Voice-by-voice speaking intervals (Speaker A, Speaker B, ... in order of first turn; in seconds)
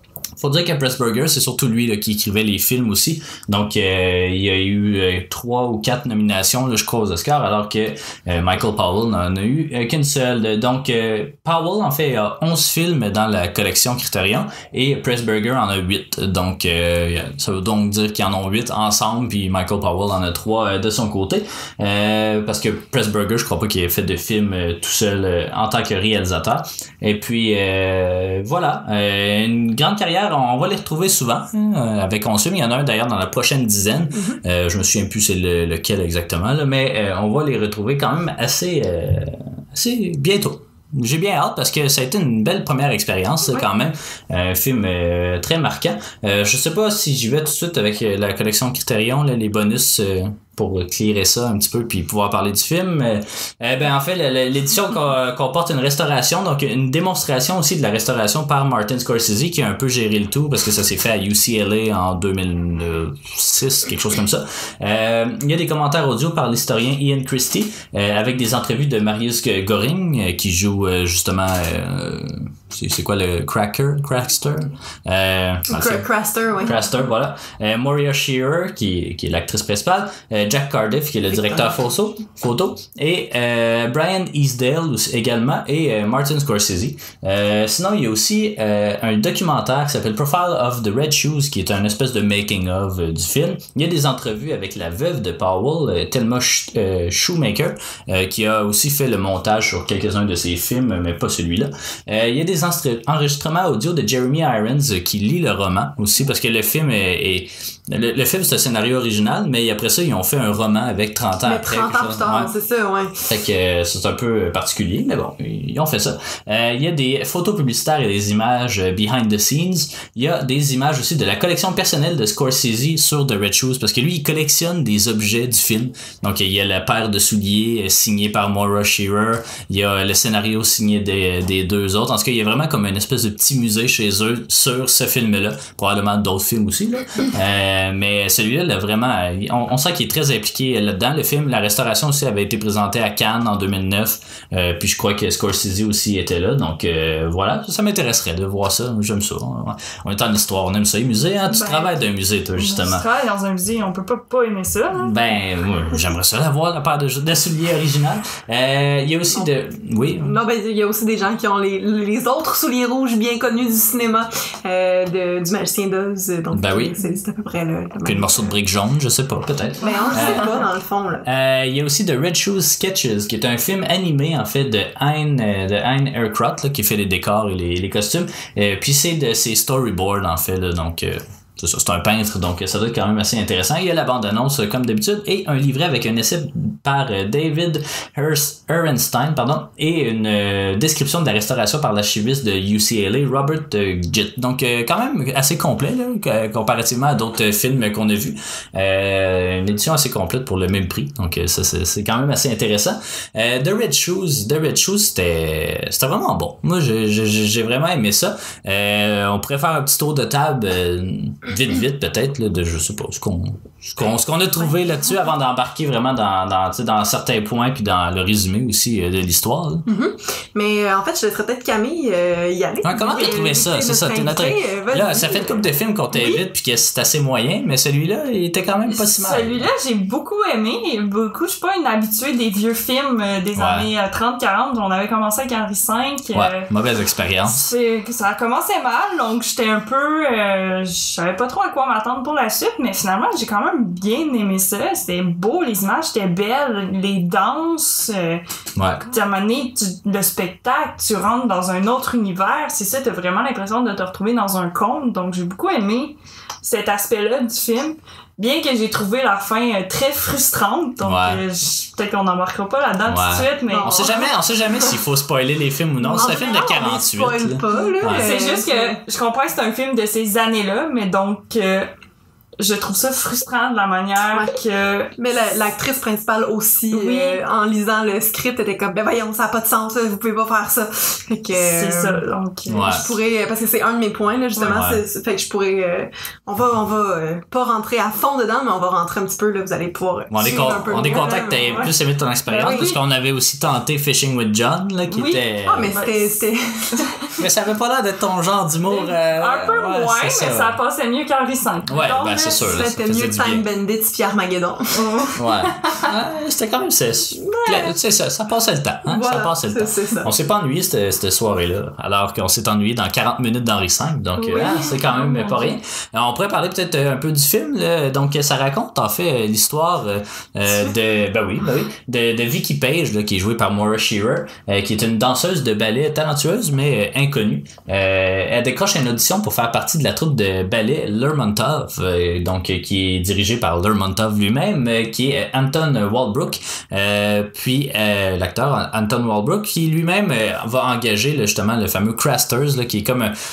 Speaker A: 0.4-76.1, 76.6-112.5, 113.3-153.0, 154.9-160.4, 166.5-166.9, 168.0-170.5, 171.2-219.9, 222.8-229.6, 233.5-233.9, 236.3-237.7, 248.8-249.0, 261.0-261.4, 263.1-268.3, 282.7-283.1, 284.6-285.0, 290.3-295.9, 297.4-300.8, 301.9-303.6, 305.4-343.4
Speaker B: 75.7-76.8, 81.3-81.7, 111.5-113.1, 160.2-168.5, 169.8-171.2, 219.9-225.6, 263.7-264.3, 266.1-269.0, 275.2-282.2, 282.8-291.9, 295.6-297.1, 302.5-305.2, 307.4-307.9, 309.0-310.3
Speaker C: 151.5-151.9, 152.6-155.2, 223.1-223.3, 228.9-236.7, 237.4-248.4, 249.0-264.1, 266.0-266.6, 267.7-271.9, 272.6-275.1, 276.9-277.4, 281.5-283.0, 291.1-291.4, 292.5-293.0, 295.1-296.4, 296.9-297.3, 298.9-302.7, 304.9-306.0, 314.4-315.8